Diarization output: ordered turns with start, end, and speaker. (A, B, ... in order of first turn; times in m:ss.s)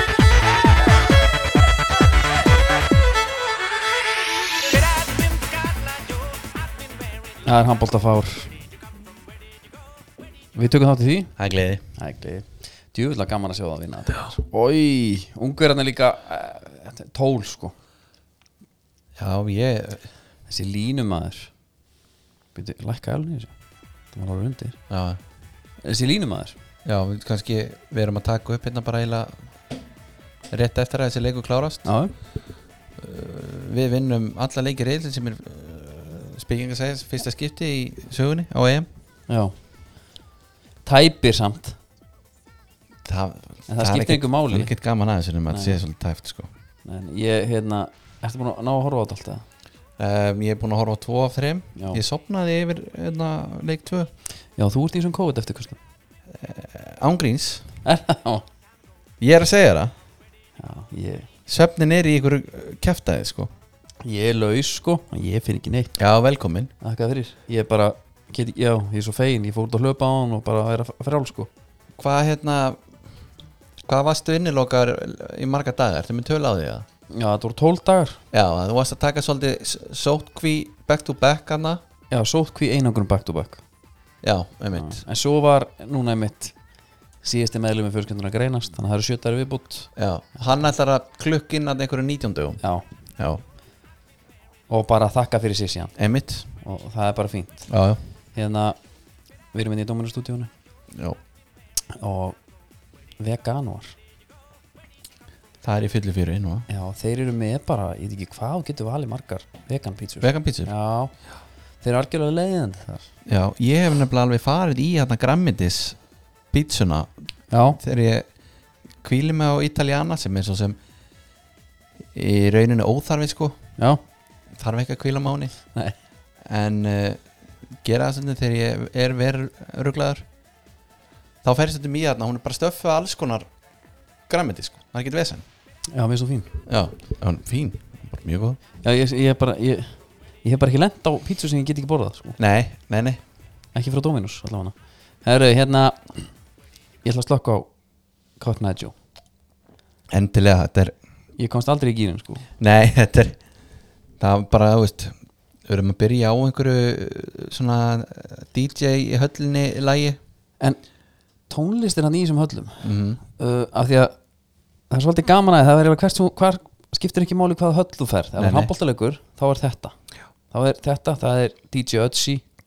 0:04.6-0:07.5 A
0:07.4-0:08.5 B
0:10.6-0:11.3 B
0:11.4-0:11.8 C
0:12.0-0:17.8 B
0:19.2-0:20.0 C
0:20.5-0:21.5 B
0:22.6-0:23.5 B
0:24.1-0:24.8 B
0:24.9-0:25.2 C
0:25.8-0:26.6 B
0:26.8-0:29.3 C
0:30.5-0:31.9 C
0:31.8-0:32.1 B
0:33.0-0:38.9 C
0:40.8-0:41.8 B
0:43.0-0:46.5 C
0:43.7-0:44.7 B
0:45.5-0:45.8 B
0:46.8-0:49.4 B
0:50.0-0:54.1 C
0:54.6-0:55.8 B
0:56.4-0:57.7 C
0:57.8-0:58.4 B
0:59.2-0:59.9 C
1:00.6-1:01.3 B
1:01.5-1:03.5 C
1:04.0-1:06.0 B
1:06.0-1:06.7 C
1:06.8-1:11.5 B
1:12.0-1:12.8 C
1:13.9-1:16.8 C
1:17.1-1:18.2 B
1:18.3-1:21.8 C
1:22.1-1:23.6 B
1:24.2-1:25.0 C
1:24.8-1:26.5 B
1:27.2-1:29.9 B
1:30.0-1:32.6 C
1:34.7-1:35.9 B
1:36.0-1:36.5 C
1:36.6-1:37.6 B
1:37.7-1:38.0 C
1:38.4-1:38.8 B
1:39.5-1:40.5 B
1:40.9-1:41.2 C
1:41.9-1:42.4 B
1:43.2-1:44.0 B
1:45.6-1:46.7 C
1:46.7-1:51.1 B
1:50.2-1:50.7 C
1:51.8-1:53.1 B
1:53.3-1:56.0 C
1:56.5-1:57.1 C
1:57.5-1:57.8 B
1:57.8-1:58.3 C
1:59.0-2:00.8 C
2:02.1-2:03.6 C
2:04.6-2:05.5 C
2:06.5-2:07.2 C
2:07.8-2:10.2 C
2:11.4-2:13.5 C
2:14.3-2:15.4 C
2:15.9-2:16.5 B
2:16.7-2:18.6 C
2:18.8-2:22.4 B
2:22.4-2:23.2 C
2:23.8-2:26.2 B
2:27.0-2:27.7 B
2:28.4-2:28.9 B
2:30.1-2:30.9 C
2:31.4-2:32.4 B
2:32.6-2:33.4 C
2:34.2-2:35.2 C
2:35.7-2:40.2 C
2:41.5-2:44.2 B
2:42.8-2:43.2 C
2:44.9-2:49.9 B
2:48.4-2:48.7 C
2:50.5-2:52.4 B